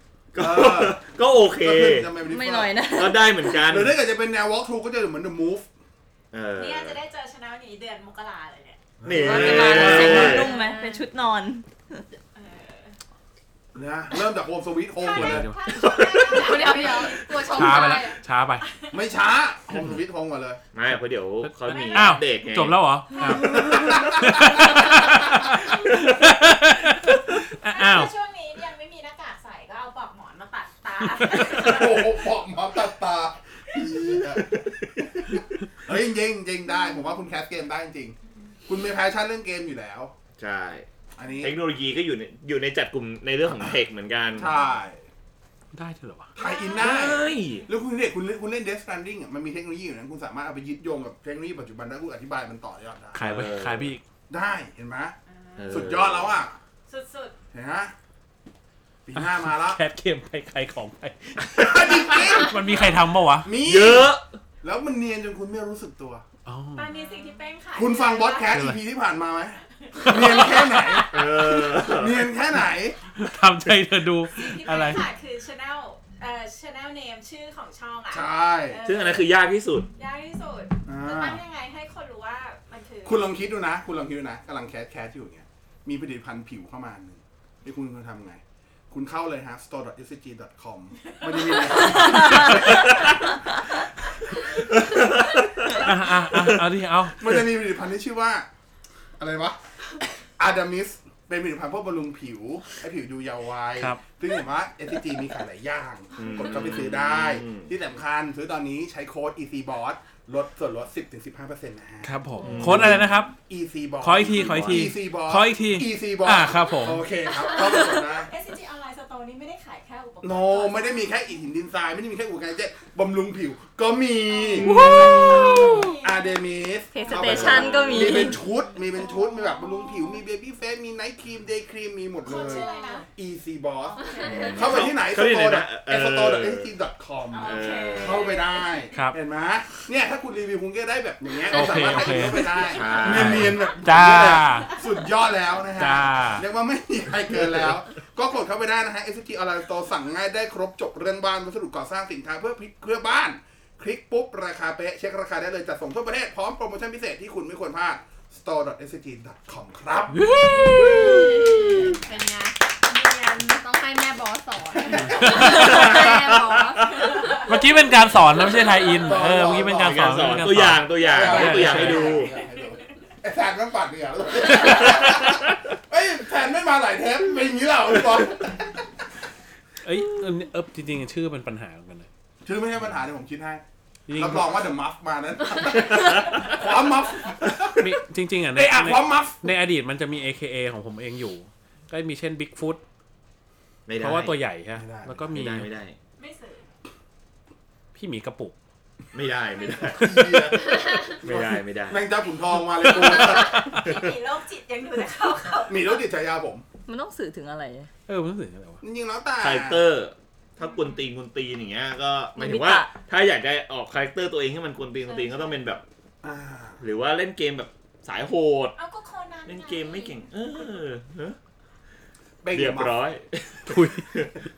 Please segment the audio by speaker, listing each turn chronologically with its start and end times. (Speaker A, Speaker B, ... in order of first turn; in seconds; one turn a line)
Speaker A: 0.3-2.1
Speaker B: 0.4-2.8
Speaker C: 2.2-3.5
Speaker A: 2.9-4.0
Speaker B: 3.5-5.7
Speaker A: 6.3-7.0
Speaker D: 6.5-11.0
Speaker B: 9.0-10.5
Speaker A: 9.0-10.5
Speaker C: 9.1-12.0
Speaker D: 12.3-13.0
Speaker B: 13.7-15.5
Speaker D: 15.0-18.0
Speaker E: 15.1-15.7
Speaker A: 15.8-16.6
Speaker F: 16.1-18.2
Speaker E: 17.5-18.7
Speaker D: 18.6-19.0
Speaker B: 18.9-20.6
Speaker A: 20.7-22.8
Speaker E: 21.4-28.1
Speaker D: 21.7-22.2
Speaker B: 23.2-25.1
Speaker D: 27.6-32.4
Speaker B: 31.5-34.5
Speaker D: 33.7-34.4
Speaker A: 34.4-35.1
Speaker B: 35.0-40.1
Speaker A: 40.4-40.9
Speaker B: 41.1-41.6
Speaker A: 41.4-44.5
Speaker B: 44.4-45.1
Speaker E: 45.7-46.3
Speaker D: 46.4-47.7
Speaker B: 46.4-53.2
Speaker A: 46.8-47.7
Speaker E: 53.1-54.0
Speaker A: 53.2-53.9
Speaker B: 54.3-55.1
Speaker D: 55.3-56.1
Speaker A: 55.6-56.3
Speaker B: 55.7-56.5
Speaker D: 56.9-57.4
Speaker B: 57.5-57.9
Speaker B: 59.0-59.8
Speaker E: 59.1-63.5
Speaker B: 61.6-62.7
Speaker B: 63.4-66.2
Speaker A: 63.6-64.3
Speaker E: 66.4-67.1
Speaker D: 66.7-68.5
Speaker B: 67.7-73.0
Speaker E: 68.5-68.8
Speaker D: 69.8-70.7
Speaker A: 71.1-72.3
Speaker E: 73.1-75.1
Speaker D: 74.3-79.3
Speaker B: 78.1-78.8
Speaker A: 78.8-79.9
Speaker D: 79.9-83.3
Speaker B: 80.9-81.4
Speaker B: 83.0-93.1
Speaker D: 91.2-92.4
Speaker A: 94.7-96.7
Speaker E: 95.7-97.4
Speaker B: 97.2-98.5
Speaker B: 99.2-99.6
Speaker B: 100.4-118.3
Speaker A: 106.2-107.7
Speaker E: 112.0-113.3
Speaker A: 112.4-113.0
Speaker E: 114.0-117.1
Speaker A: 114.3-114.8
Speaker D: 117.2-121.2
Speaker B: 120.2-160.2
Speaker D: 124.3-126.4
Speaker A: 124.6-125.8
Speaker F: 124.6-126.0
Speaker C: 126.9-128.4
Speaker D: 127.1-127.8
Speaker A: 127.1-128.4
Speaker D: 132.2-133.1
Speaker F: 132.4-133.1
Speaker D: 133.8-134.8
Speaker F: 134.0-134.6
Speaker A: 134.2-136.7
Speaker D: 137.3-138.9
Speaker A: 137.4-138.4
Speaker E: 138.9-139.2
Speaker D: 141.5-141.9
Speaker E: 141.5-144.8
Speaker A: 142.5-143.7
Speaker D: 142.6-143.0
Speaker E: 145.8-146.4
Speaker E: 160.1-161.3
Speaker F: 160.6-167.3
Speaker D: 162.9-163.2
Speaker E: 165.0-166.0
Speaker A: 165.1-167.4
Speaker D: 166.9-167.6
Speaker E: 167.4-172.2
Speaker B: 169.0-170.0
Speaker A: 169.4-172.3
Speaker B: 171.0-178.9
Speaker D: 172.2-172.4
Speaker E: 174.5-174.8
Speaker E: 179.8-182.1
Speaker B: 182.4-183.6
Speaker E: 184.1-184.5
Speaker B: 184.1-187.9
Speaker E: 187.8-192.8
Speaker B: 188.5-189.5
Speaker A: 193.8-194.4
Speaker E: 194.0-195.7
Speaker B: 194.8-195.3
Speaker A: 195.3-196.0
Speaker D: 196.2-196.7
Speaker E: 197.9-198.5
Speaker A: 199.1-200.2
Speaker B: 199.8-204.0
Speaker E: 200.0-200.5
Speaker A: 201.2-202.0
Speaker D: 202.8-206.0
Speaker A: 203.7-204.0
Speaker B: 205.7-206.6
Speaker C: 206.8-207.9
Speaker E: 208.1-208.8
Speaker B: 208.8-209.8
Speaker A: 209.4-215.8
Speaker D: 210.6-211.1
Speaker C: 212.4-212.9
Speaker D: 215.0-215.6
Speaker B: 216.2-216.8
Speaker A: 216.8-218.8
Speaker D: 218.8-220.2
Speaker A: 219.4-221.4
Speaker B: 222.4-223.0
Speaker A: 222.5-224.3
Speaker E: 223.7-224.1